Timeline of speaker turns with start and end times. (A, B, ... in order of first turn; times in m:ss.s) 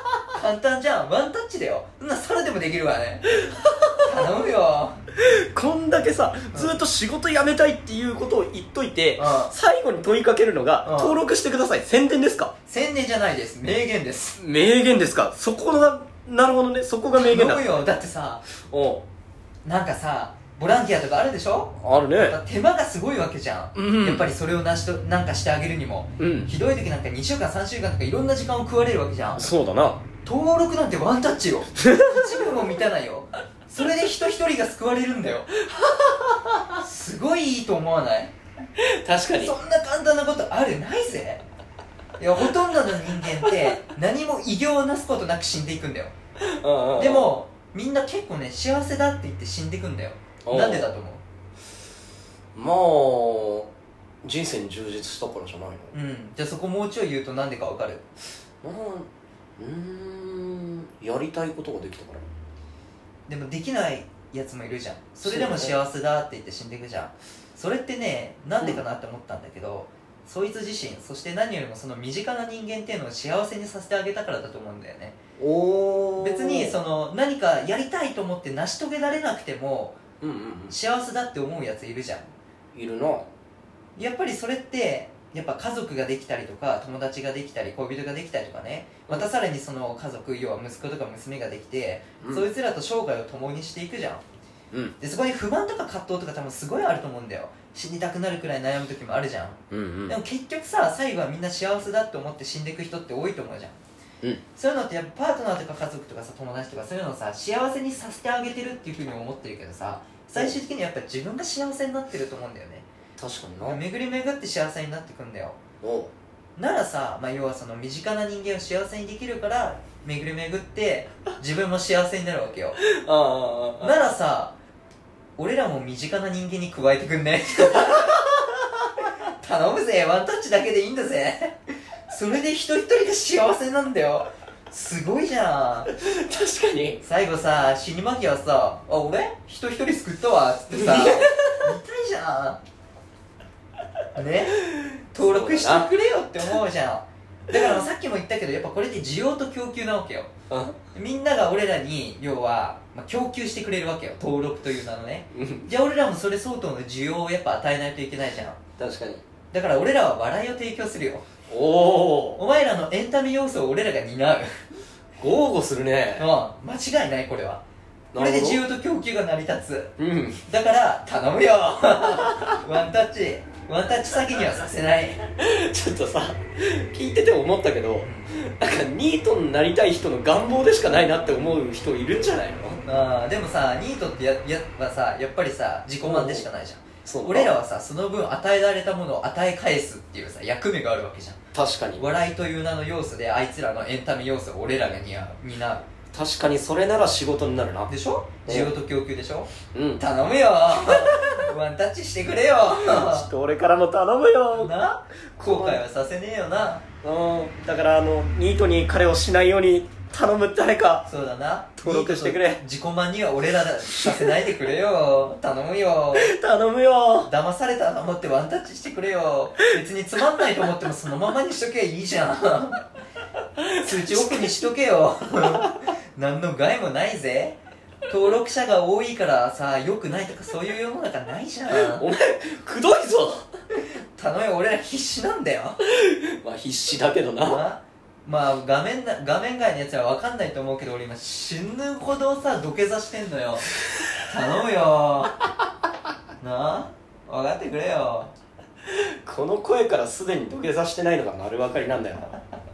0:00.3-0:03.4 A
0:03.5-0:04.0 B
0:04.0-0:05.0 A
0:05.2-0:12.5 B
0:09.2-0:09.5 A
0:10.8-0:11.2 A
0:12.7-0:14.4 A
0:14.4-0:17.8 B
0:17.2-0:18.4 A
0:18.6-0:19.0 B
0:19.6-0:29.5 A
0:21.8-0:22.4 B
0:23.8-0:24.3 B
0:26.2-0:26.5 B
0:29.4-0:30.0 B
0:30.2-0:35.6 A
0:31.8-0:32.4 B
0:35.8-0:36.7 B
0:36.7-0:38.3 A
0:38.8-0:39.6 B
0:39.4-0:41.4 A
0:42.2-0:46.1 A
0:43.4-0:43.8 B
0:46.4-0:47.4 B
0:47.0-0:51.2 A
0:50.4-0:50.9 B
0:52.6-0:53.7 B
0:54.2-0:55.9 B
0:55.9-0:58.1 A
0:58.6-1:02.3 B
1:03.3-1:15.2 A
1:05.2-1:05.8 B
1:08.6-1:08.8 B
1:15.4-1:16.8 B
1:16.2-1:20.0 A
1:20.2-1:20.8 B
1:20.7-1:22.3 A
1:22.7-1:23.3 B
1:24.0-1:34.2 A
1:32.2-1:32.5 B
1:35.0-1:43.8 A
1:39.7-1:40.2 B
1:44.6-1:52.9 A
1:53.2-1:53.8 B
1:53.6-1:55.6 A
1:55.8-1:56.1 B
1:56.6-2:02.8 A
2:02.8-2:04.1 B
2:03.8-2:04.6 A
2:05.4-2:08.3 A
2:07.8-2:08.2 B
2:09.0-2:11.6 A
2:12.1-2:15.9 A
2:16.0-2:17.0 B
2:17.0-2:22.6 A
2:20.7-2:21.7 B
2:24.2-2:30.3 A
2:24.7-2:25.9 B
2:30.5-2:30.8 B
2:30.9-2:38.6 A
2:35.3-2:35.7 B
2:38.8-2:39.2 B
2:39.5-2:41.2 A
2:41.5-2:42.4 B
2:42.4-2:44.6 A
2:45.2-2:46.3 B
2:46.2-2:47.6 A
2:48.1-2:48.7 B
2:48.2-2:49.9 A
2:50.0-2:50.4 B
2:50.5-2:55.3 A
2:52.3-2:52.6 B
2:55.4-3:02.8 B
2:58.0-2:58.3 A
3:02.8-3:11.4 A
3:06.0-3:06.5 B
3:07.0-3:07.6 B
3:11.5-3:12.1 B
3:12.0-3:15.9 A
3:16.1-3:17.9 B
3:17.9-3:23.3 A
3:18.5-3:18.7 B
3:19.7-3:20.0 B
3:20.9-3:21.4 B
3:22.7-3:24.7 B
3:24.5-3:26.8 A
3:25.4-3:25.8 B
3:27.0-3:31.1 B
3:31.1-3:36.3 A
3:31.8-3:32.6 B
3:33.9-3:34.4 B
3:36.1-3:37.3 B
3:37.3-3:42.8 A
3:43.6-3:44.6 B
3:43.8-3:52.1 A
3:45.4-3:45.8 B
3:51.7-3:53.5 B
3:54.2-3:55.8 A
3:55.8-3:57.6 B
3:57.4-4:05.4 A
4:06.4-4:08.3 A
4:08.9-4:12.3 B